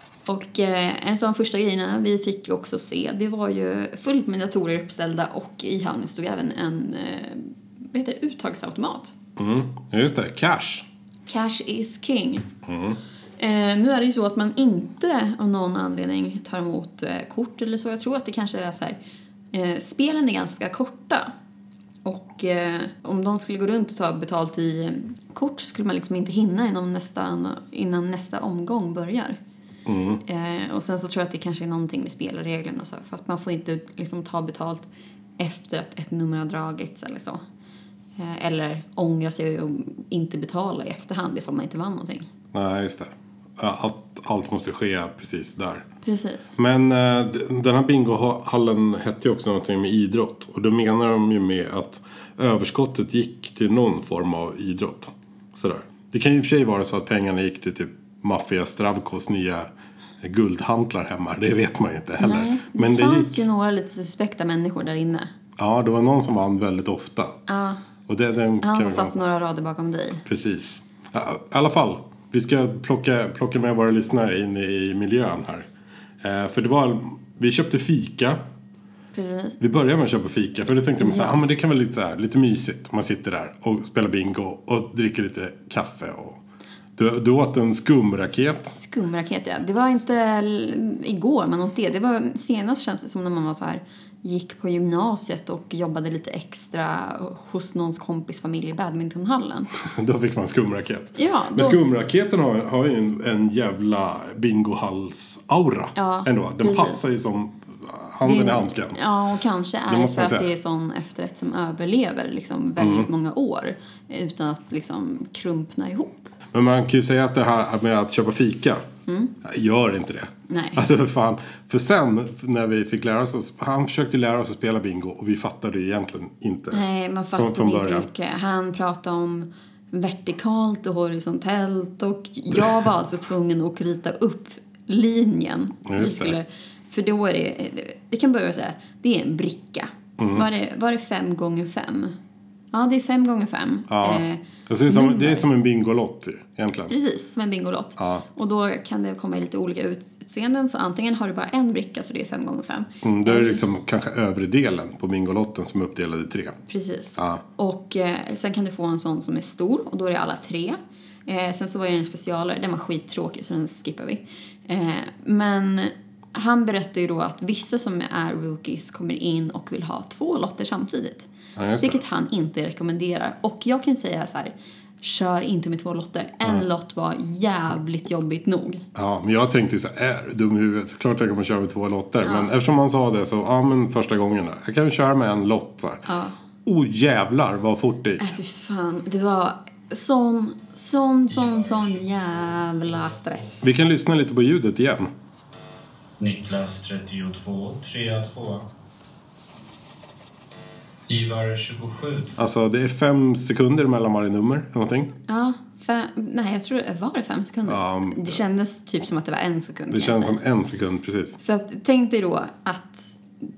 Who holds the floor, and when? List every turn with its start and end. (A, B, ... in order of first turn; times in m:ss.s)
0:00.3-0:09.1 A
0:09.4-0:10.9 B
0:11.3-0:12.5 A
0:12.6-0:13.0 B
0:13.4-0:19.0 A
0:19.5-0:21.3 A
0:22.0-0:29.4 A
0:29.9-0:30.2 B
0:30.2-0:34.9 A
0:35.4-0:37.4 A
0:38.2-0:42.3 A
0:42.5-0:45.9 B
0:46.0-0:46.6 A
0:46.5-0:59.7 B
1:00.2-1:03.4 B
1:02.2-1:05.3 A
1:05.6-1:07.4 B
1:07.5-1:07.8 A
1:08.1-1:09.2 B
1:08.6-1:10.2 A
1:10.3-1:15.7 B
1:16.2-1:18.4 B
1:19.1-1:19.6 A
1:19.6-1:26.4 B
1:21.0-1:21.4 A
1:27.0-1:28.8 B
1:28.7-1:39.7 A
1:39.8-1:49.0 B
1:41.2-1:41.8 A
1:46.0-1:47.0 A
1:48.2-1:56.3 A
1:49.9-1:50.5 B
1:52.8-1:53.1 B
1:56.5-1:58.8 B
1:59.1-1:59.3 A
1:59.4-2:06.8 B
2:00.5-2:00.8 A
2:06.7-2:22.2 A
2:07.4-2:08.1 B
2:15.9-2:16.4 B
2:20.2-2:20.5 B
2:22.7-2:25.5 A
2:23.9-2:26.9 B
2:26.9-2:33.6 A
2:28.0-2:28.3 B
2:33.0-2:36.6 B
2:36.7-2:58.8 A
2:37.2-2:37.4 B
2:51.6-2:52.0 B
2:59.0-3:06.1 B
3:02.2-3:02.5 A
3:06.1-3:06.4 A
3:06.6-3:08.3 B
3:08.2-3:13.6 A
3:11.3-3:13.5 C
3:13.6-3:15.1 B
3:16.2-3:18.7 C
3:21.1-3:22.4 C
3:22.4-3:25.1 B
3:25.3-3:30.4 A
3:27.7-3:28.4 B
3:29.9-3:31.4 B
3:31.4-3:33.2 A